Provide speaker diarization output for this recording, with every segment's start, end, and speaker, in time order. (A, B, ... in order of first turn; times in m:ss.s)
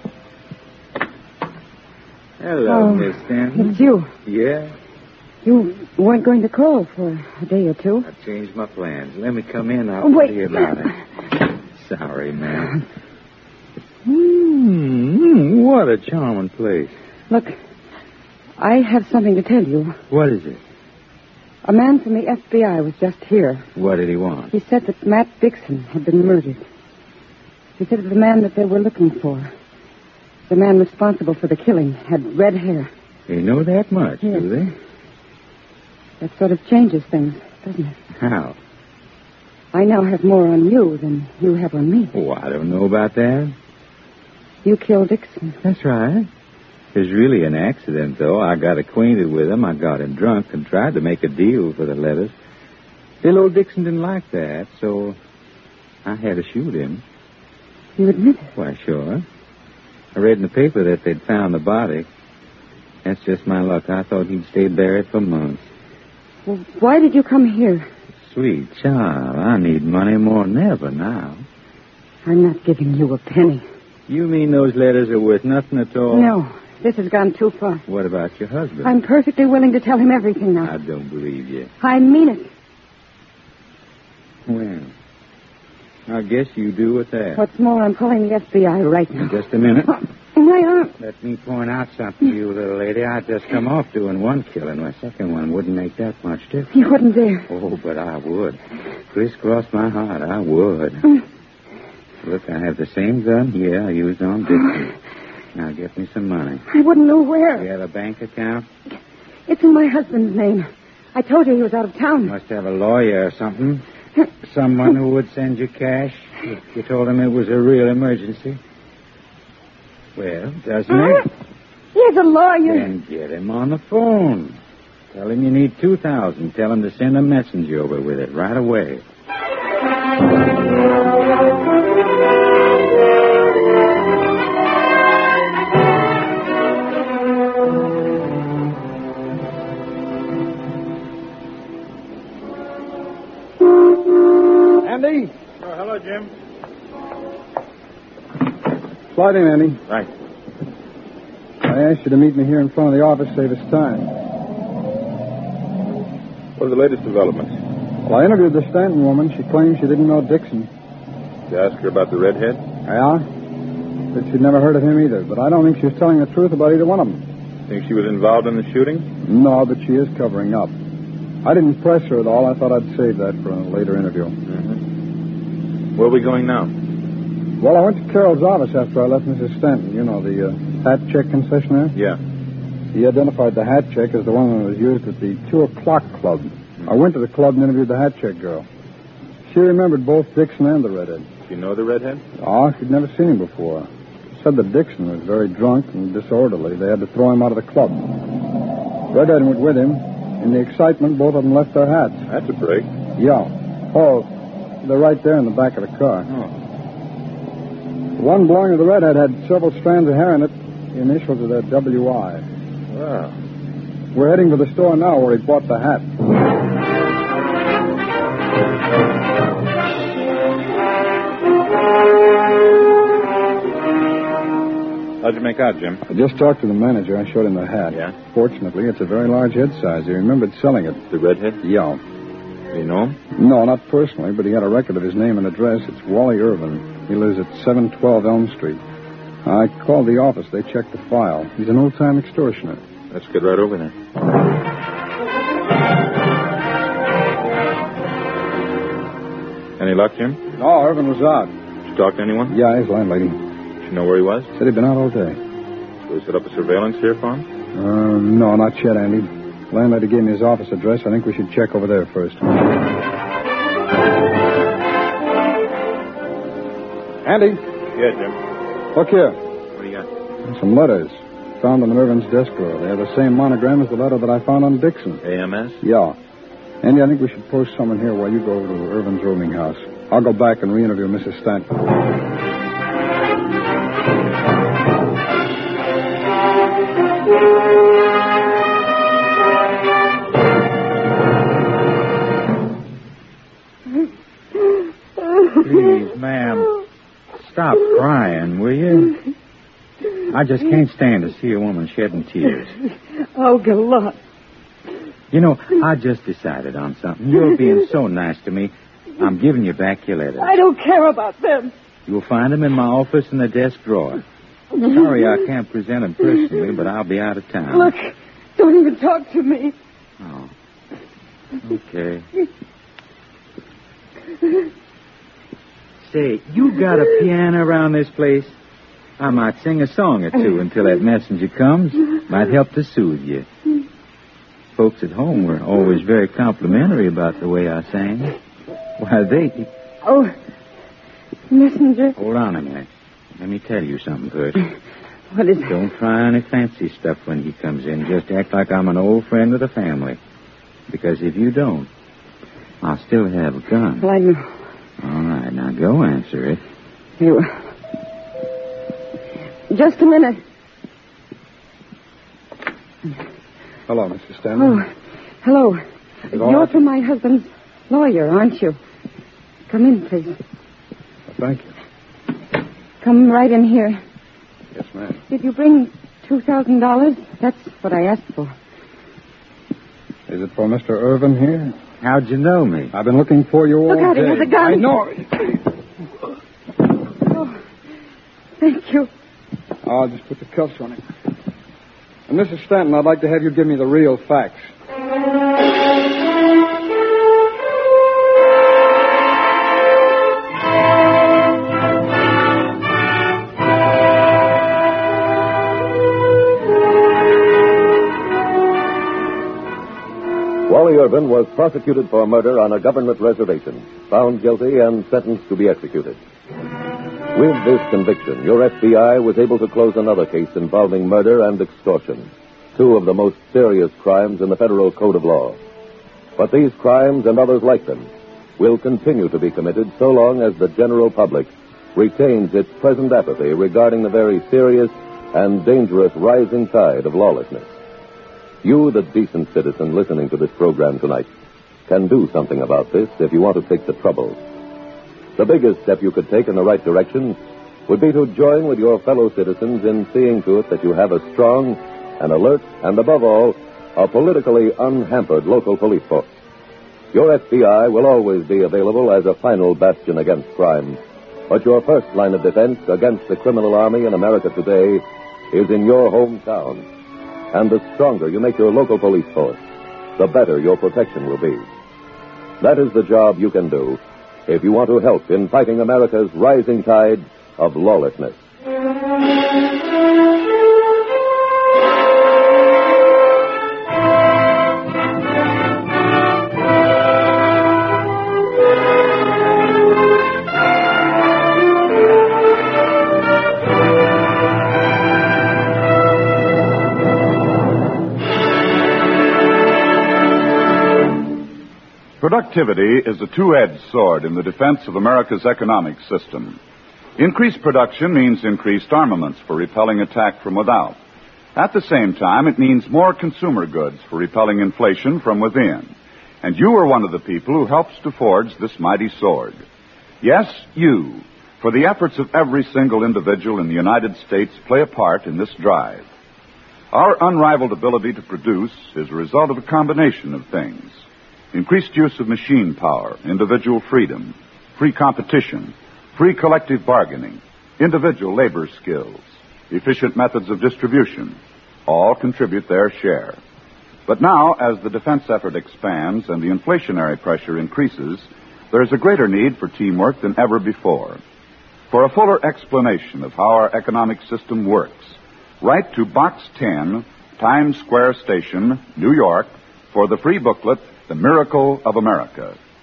0:02.4-0:04.7 A
0:02.6-0:04.1 B
0:05.4-0:08.1 B
0:08.0-0:11.0 A
0:10.0-0:10.6 B
0:11.7-0:12.8 A
0:14.0-0:16.9 A
0:17.3-0:17.6 B
0:18.6-0:20.0 B
0:20.1-0:20.6 A
0:21.6-0:23.6 B
0:23.8-0:24.5 A
0:24.5-0:26.6 B
0:27.8-0:29.5 B
0:30.5-0:32.9 B
0:33.3-0:34.7 A
0:36.2-0:37.9 B
0:38.2-0:38.6 A
0:39.7-0:42.1 B
0:42.1-0:43.5 A
0:44.6-0:45.6 B
0:45.6-0:46.3 A
0:46.9-0:52.3 A
0:53.2-0:55.2 A
0:56.0-0:57.0 A
0:58.0-0:58.5 B
0:58.6-0:59.2 A
1:00.1-1:02.0 A
1:03.0-1:05.6 A
1:06.4-1:07.9 B
1:08.3-1:11.4 A
1:12.2-1:13.6 B
1:14.1-1:16.3 A
1:16.1-1:17.8 B
1:17.9-1:18.9 A
1:18.8-1:20.7 B
1:20.6-1:21.7 A
1:21.8-1:22.5 B
1:24.4-1:24.9 A
1:26.1-1:27.4 A
1:27.4-1:29.3 B
1:29.2-1:30.0 A
1:30.3-1:30.9 B
1:31.0-1:36.7 A
1:36.7-1:37.4 B
1:37.5-1:38.6 A
1:39.1-1:41.2 A
1:42.2-1:44.9 A
1:45.5-1:46.6 A
1:46.7-1:47.6 B
1:47.6-1:48.7 A
1:49.5-1:52.3 B
1:52.2-1:53.8 A
1:54.4-1:58.6 A
2:00.2-2:01.3 A
2:00.9-2:01.2 B
2:01.9-2:02.9 B
2:02.7-2:04.6 A
2:05.1-2:09.0 A
2:24.8-2:25.3 C
2:25.6-2:26.3 D
2:29.1-2:29.8 C
2:31.6-2:34.1 C
2:36.6-2:37.6 D
2:38.0-2:40.7 C
2:41.5-2:42.6 D
2:42.8-2:43.2 C
2:44.1-2:47.2 C
2:47.7-2:49.1 D
2:49.2-2:50.7 C
2:51.4-2:54.3 C
2:54.5-2:54.8 D
2:56.0-2:56.7 D
2:57.6-3:01.9 C
3:02.9-3:08.6 C
3:09.4-3:11.3 C
3:11.4-3:12.2 D
3:12.4-3:18.2 C
3:19.1-3:22.2 C
3:22.3-3:22.9 D
3:23.2-3:24.3 C
3:24.8-3:26.3 C
3:26.2-3:26.5 D
3:28.2-3:32.4 C
3:32.9-3:33.3 D
3:34.1-3:36.1 C
3:45.2-3:46.0 D
3:46.0-3:51.0 C
3:47.9-3:48.1 D
3:51.1-3:51.6 D
3:51.6-3:52.0 C
3:52.7-3:53.2 D
3:53.3-3:58.8 C
3:59.4-4:02.8 C
4:03.1-4:03.9 D
4:09.8-4:10.4 D
4:10.6-4:11.5 C
4:11.8-4:12.5 D
4:12.5-4:13.4 C
4:13.8-4:14.5 D
4:14.6-4:15.4 C
4:16.1-4:17.4 D
4:17.7-4:22.7 C
4:27.2-4:27.6 C
4:27.9-4:28.4 D
4:28.9-4:29.4 C
4:29.7-4:30.1 D
4:30.4-4:35.2 C
4:35.2-4:35.8 D
4:35.8-4:36.2 C
4:36.8-4:41.8 C
4:55.6-4:56.7 A
4:57.4-4:59.2 A
5:00.3-5:02.7 A
5:03.3-5:04.2 B
5:05.3-5:10.6 A
5:10.4-5:11.7 B
5:12.1-5:14.2 A
5:14.8-5:17.9 A
5:17.7-5:19.7 B
5:20.2-5:20.5 A
5:21.6-5:22.3 A
5:26.0-5:28.5 A
5:29.2-5:33.4 A
5:34.8-5:38.4 A
5:39.0-5:39.7 A
5:40.0-5:40.3 B
5:41.5-5:42.1 B
5:42.2-5:42.9 A
5:43.4-5:44.7 A
5:45.3-5:45.7 B
5:45.6-5:50.2 A
5:50.9-5:51.9 A
5:52.8-5:54.1 A
5:54.0-5:54.5 B
5:55.0-5:56.6 A
5:57.2-5:57.6 B
5:59.7-6:00.4 B
6:03.9-6:04.8 C
6:04.6-6:04.9 B
6:05.4-6:08.8 B
6:06.3-6:06.8 C
6:09.7-6:10.4 B
6:11.3-6:11.7 C
6:13.0-6:14.0 B
6:14.7-6:15.2 C
6:15.3-6:18.5 B
6:20.3-6:21.8 C
6:22.0-6:22.9 A
6:22.9-6:25.6 C
6:23.9-6:24.9 B
6:27.3-6:27.6 B
6:28.6-6:29.1 B
6:29.8-6:31.0 C
6:32.3-6:34.7 C
6:50.7-6:56.2 E
6:57.3-7:05.6 E
7:06.4-7:17.7 E
7:18.6-7:21.3 E
7:21.9-7:24.4 E
7:25.4-7:27.4 E
7:27.9-7:36.3 E
7:37.1-7:41.0 E
7:41.5-7:46.8 E
7:47.5-7:49.6 E
7:50.2-7:51.7 E
7:52.6-7:58.4 E
8:22.2-8:26.6 F
8:27.2-8:31.0 F
8:31.5-8:39.6 F
8:40.2-8:46.1 F
8:46.9-8:51.0 F
8:51.5-9:03.4 F
9:04.1-9:11.2 F
9:11.9-9:22.6 F